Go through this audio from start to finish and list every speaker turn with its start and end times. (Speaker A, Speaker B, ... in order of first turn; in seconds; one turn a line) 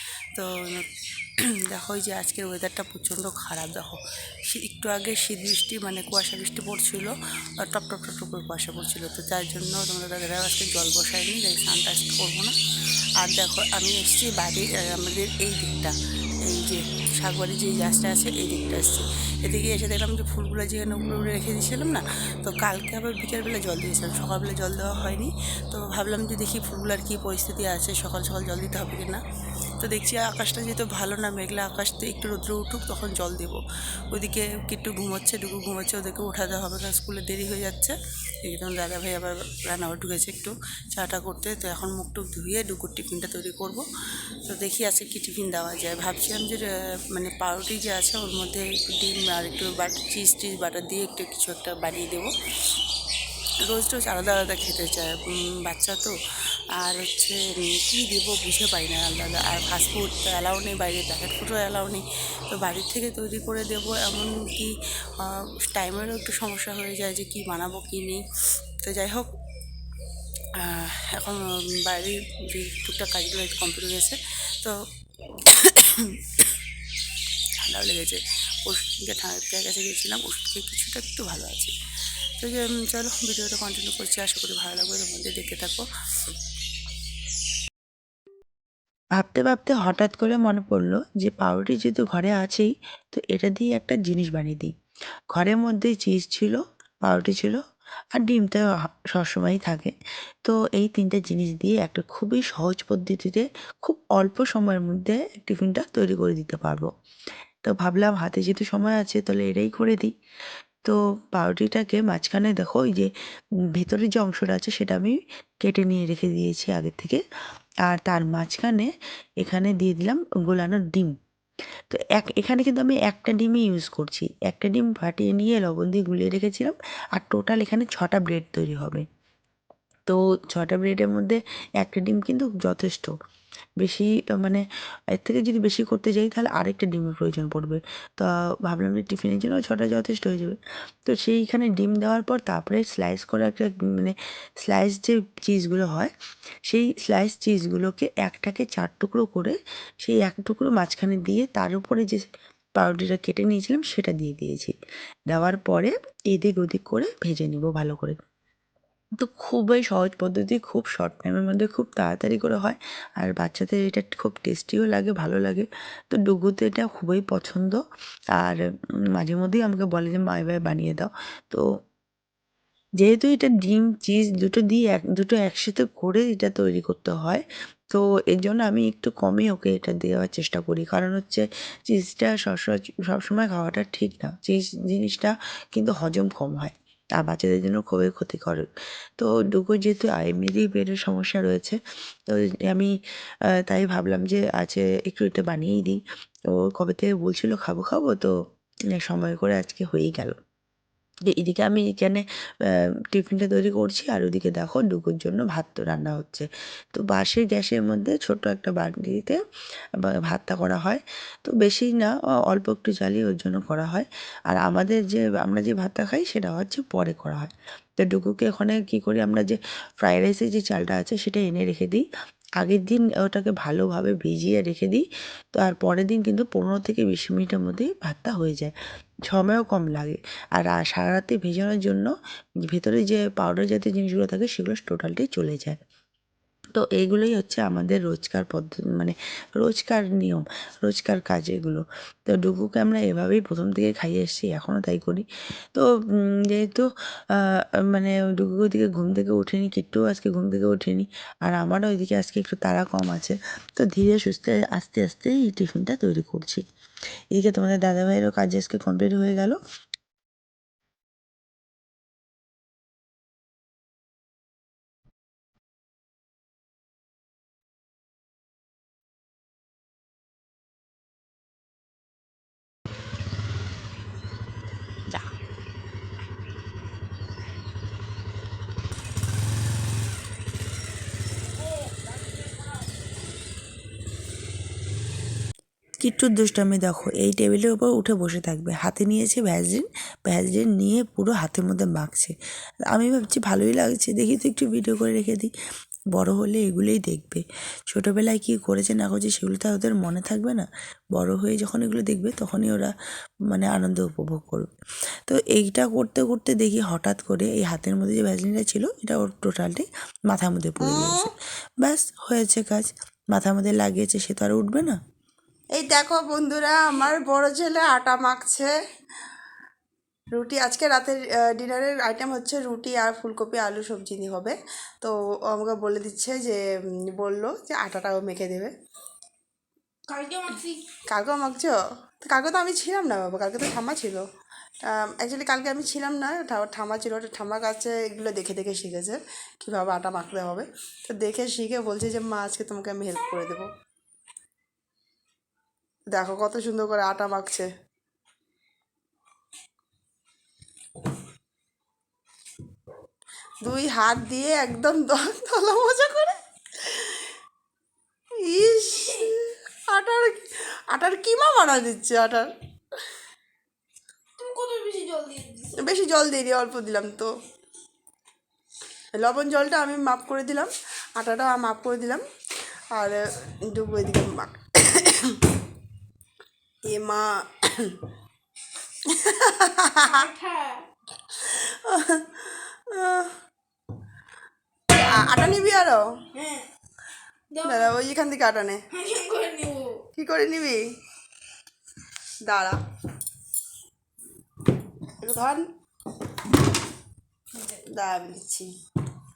Speaker A: 0.3-0.9
Speaker A: 1.6-12.5
Speaker A: 13.2-29.2
Speaker A: 29.8-43.8
Speaker A: 44.4-52.3
Speaker A: 53.6-56.1
Speaker A: 56.8-62.0
Speaker A: 62.5-68.2
Speaker A: 68.8-69.3
Speaker A: 70.6-74.8
Speaker A: 75.3-76.5
Speaker A: 77.6-81.7
Speaker A: 82.4-85.8
Speaker B: 89.2-94.7
Speaker B: 95.3-97.6
Speaker B: 98.1-106.9
Speaker B: 107.6-110.1
Speaker B: 110.8-113.1
Speaker B: 113.7-117.2
Speaker B: 117.8-121.1
Speaker B: 121.9-129.0
Speaker B: 130.1-133.1
Speaker B: 133.8-146.1
Speaker B: 146.7-152.2
Speaker B: 152.8-154.7
Speaker B: 155.3-158.2
Speaker B: 159.2-167.8
Speaker B: 168.3-171.6
Speaker B: 173.0-188.7
Speaker B: 189.2-192.9
Speaker B: 193.5-198.3
Speaker B: 198.9-200.3
Speaker B: 201.3-209.4
Speaker B: 210.0-222.0
Speaker B: 222.6-228.7
Speaker B: 229.3-232.1
Speaker B: 232.7-235.8
Speaker B: 236.8-256.6
Speaker B: 257.3-259.6
Speaker B: 286.0-292.3
Speaker B: 292.9-295.5
Speaker B: 296.1-302.9
Speaker B: 303.5-304.7
Speaker B: 305.2-311.3
Speaker C: 310.8-311.3
Speaker B: 311.8-315.0
Speaker C: 315.7-318.7
Speaker C: 320.3-326.6
Speaker C: 327.1-328.7
Speaker D: 330.1-330.8
Speaker C: 331.1-334.2
Speaker C: 334.8-343.7
Speaker C: 346.1-347.7
Speaker C: 353.6-357.3
Speaker C: 358.4-362.5
Speaker D: 364.4-365.7
Speaker C: 365.8-367.3
Speaker C: 369.2-372.2
Speaker C: 372.9-375.4
Speaker C: 376.9-378.0
Speaker C: 379.0-380.3
Speaker D: 380.0-380.9
Speaker C: 381.3-383.3
Speaker C: 384.9-386.1
Speaker D: 386.3-386.6
Speaker D: 387.5-387.9
Speaker C: 387.6-388.8
Speaker D: 388.9-390.0
Speaker C: 390.1-390.9
Speaker C: 392.4-392.8
Speaker C: 395.2-395.6
Speaker C: 397.8-398.7